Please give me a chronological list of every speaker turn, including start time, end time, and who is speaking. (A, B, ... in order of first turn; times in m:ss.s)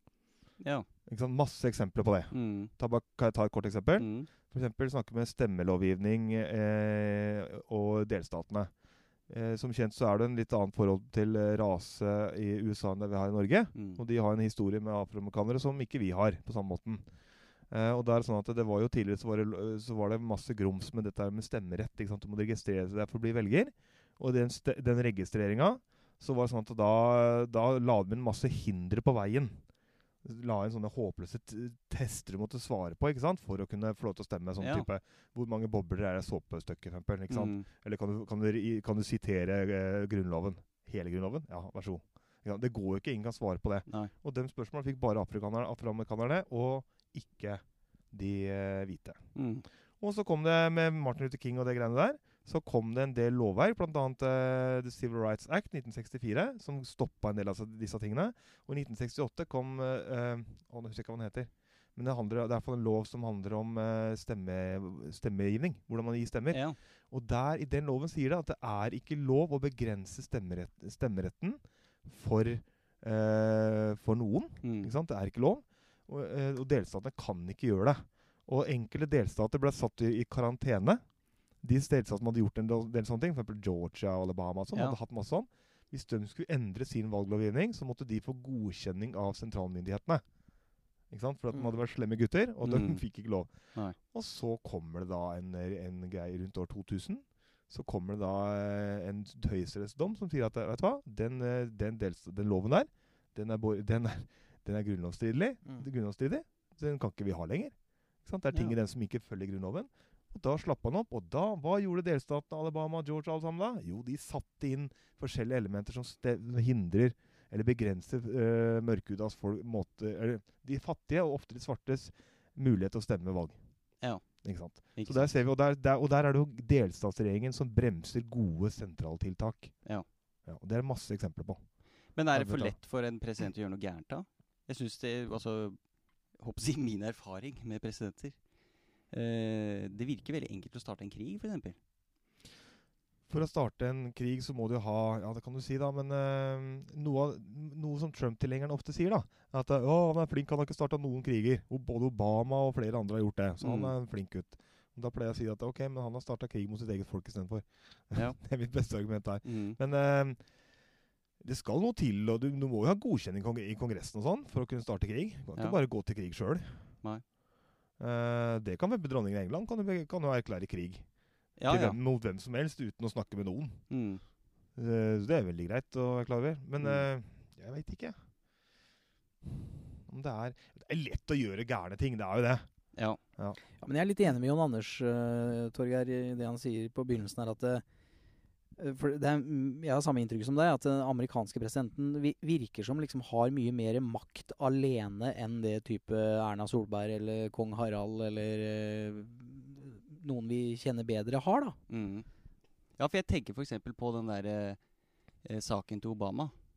0:00.6-0:00.9 A
0:01.0-0:08.7 B
0:02.3-0:02.7 A
0:04.0-0:04.3 A
0:09.3-0:17.1 B
0:13.7-0:14.0 A
0:17.7-0:29.6 B
0:30.2-0:49.2 B
0:34.6-0:34.9 A
0:37.3-0:37.6 A
0:43.9-0:44.1 A
0:49.3-0:49.6 A
0:50.0-1:30.2 B
1:06.5-1:06.8 A
1:14.6-1:14.9 A
1:31.1-2:09.8 B
1:32.6-1:34.0 A
2:04.0-2:05.3 A
2:10.4-2:11.7 B
2:12.1-2:18.5 A
2:12.3-2:12.8 B
2:19.1-2:21.8 A
2:23.3-2:40.8 B
2:33.6-2:33.9 A
2:38.1-2:38.6 A
2:39.4-2:39.8 A
2:41.4-2:47.0 B
2:48.0-2:51.1 B
2:51.6-2:52.0 A
2:51.6-2:53.9 B
2:53.9-2:54.2 A
2:54.7-2:58.2 B
2:56.8-2:57.1 A
2:59.4-3:02.7 B
3:03.8-3:07.8 C
3:08.8-3:21.8 C
3:21.9-3:22.3 A
3:22.9-3:24.9 A
3:25.4-3:26.5 A